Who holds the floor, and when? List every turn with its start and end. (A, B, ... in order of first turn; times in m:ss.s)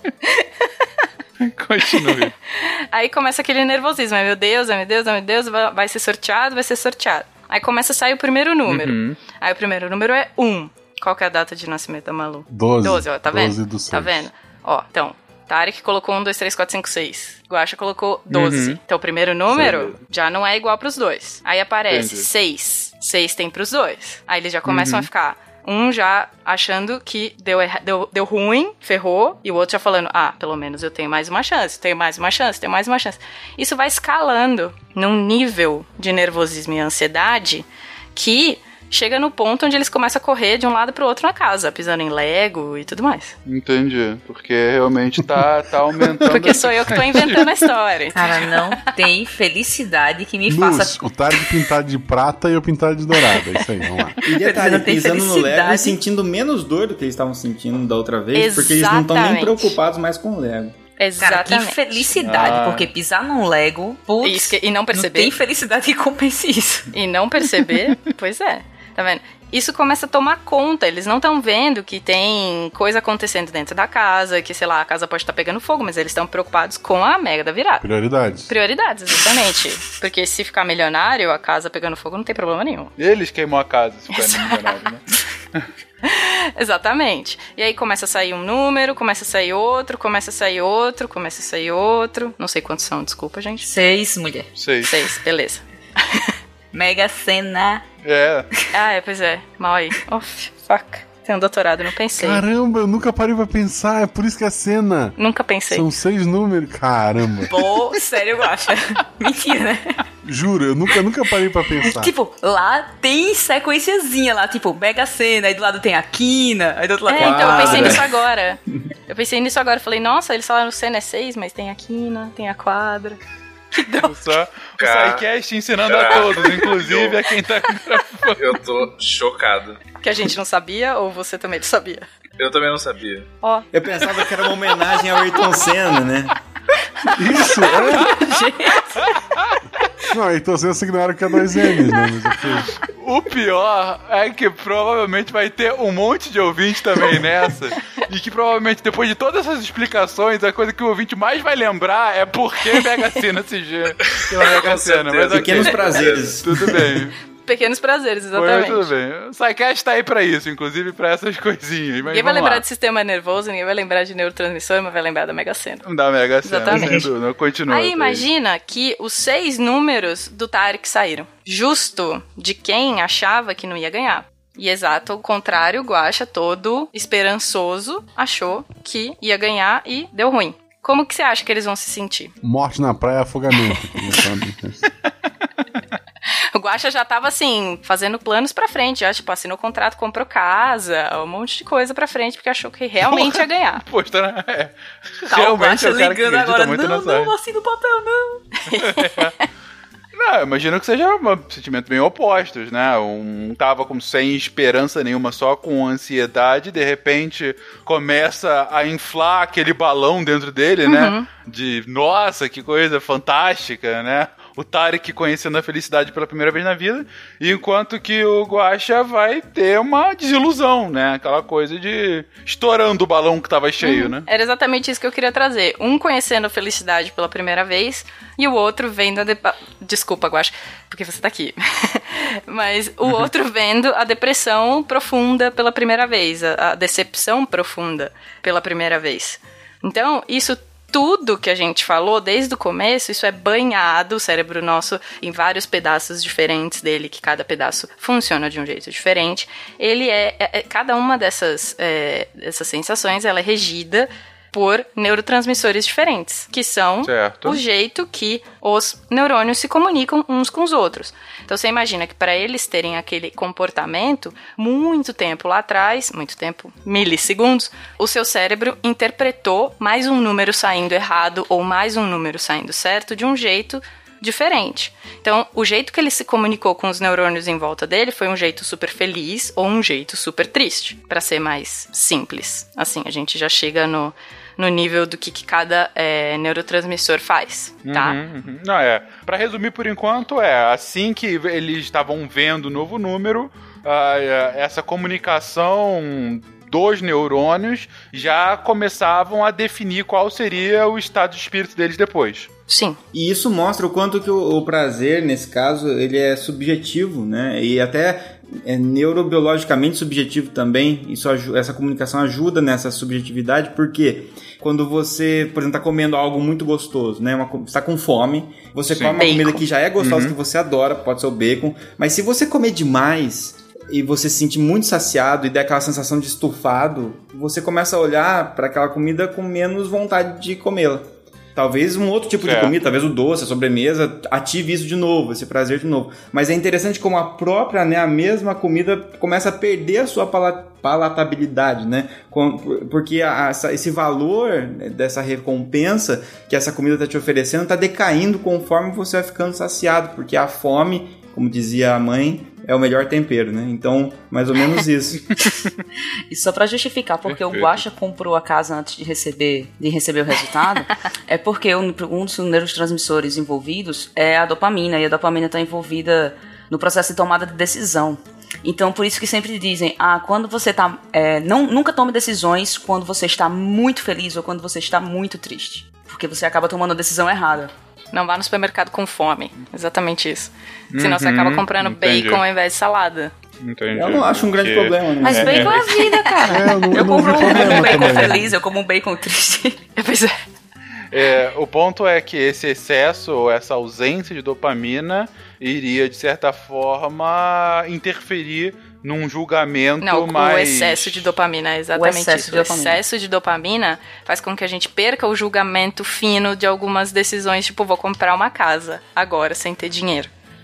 0:01.4-0:02.3 A
0:02.6-0:43.4 B
0:08.7-0:09.2 A
0:12.5-0:14.3 C
0:18.3-0:18.8 A
0:19.6-0:19.9 D
0:21.9-0:22.3 A
0:24.7-0:25.1 A
0:43.5-0:47.6 A
0:46.3-0:48.8 B
0:48.1-0:51.0 E
0:50.5-0:54.2 C
0:54.2-1:00.8 F
0:54.3-0:56.0 E
0:58.3-0:59.8 B
1:01.0-1:01.8 B
1:01.2-1:06.9 E
1:02.2-1:02.9 A
1:04.2-1:05.4 B
1:06.9-1:17.8 B
1:17.8-1:18.5 C
1:18.5-1:22.9 B
1:23.0-1:25.0 A
1:24.1-1:24.6 B
1:26.0-1:33.7 B
1:33.6-1:34.5 E
1:34.6-1:34.9 A
1:34.8-1:36.3 B
1:36.7-1:37.8 E
1:38.0-1:38.5 A
1:38.7-1:42.4 B
1:42.2-1:45.2 C
1:45.2-1:45.9 B
1:45.7-1:47.5 C
1:47.5-1:50.0 E
1:50.2-1:52.1 C
1:51.9-1:58.1 E
1:57.1-2:03.2 B
1:57.2-1:58.1 F
2:03.8-2:04.1 B
2:04.0-2:08.4 A
2:04.8-2:05.2 D
2:05.9-2:07.2 D
2:08.4-2:09.8 D
2:10.0-2:12.0 B
2:12.4-2:13.3 D
2:13.4-2:13.7 B
2:13.7-2:16.4 F
2:17.2-2:18.1 C
2:17.7-2:18.9 E
2:18.0-2:18.4 B
2:18.0-2:18.4 A
2:19.1-2:19.6 A
2:20.1-2:22.7 C
2:22.8-2:37.2 A
2:34.0-2:36.4 D
2:35.3-2:36.9 F
2:37.5-2:38.9 B
2:38.3-2:42.6 A
2:42.1-2:45.8 B
2:45.8-2:48.3 A
2:46.4-2:47.0 B
2:46.7-2:47.1 E
2:47.7-3:02.3 B
3:02.4-3:04.8 C
3:06.5-3:13.8 B
3:13.0-3:14.7 A
3:15.3-3:17.3 A
3:15.3-3:18.4 E
3:18.7-3:19.4 B
3:18.8-3:19.3 A
3:20.2-3:44.2 A
3:30.9-3:31.3 B
3:43.8-4:48.2 B
4:17.0-4:17.6 A
4:47.8-5:02.5 A
5:02.7-5:03.0 B
5:03.1-5:55.2 F
5:18.9-5:19.2 A
5:19.2-5:19.6 B
5:20.0-5:20.4 A
5:32.4-5:32.7 A
5:56.3-6:17.7 E
5:57.3-5:57.8 A
6:18.1-6:23.3 B
6:20.9-6:22.4 A
6:23.6-6:25.9 A
6:23.9-6:25.8 F
6:25.2-6:29.8 E
6:25.9-6:26.4 B
6:26.5-6:28.5 C
6:27.3-6:28.2 B
6:30.0-6:30.4 B
6:31.1-6:41.3 A
6:40.0-6:50.3 B
6:41.9-6:43.0 E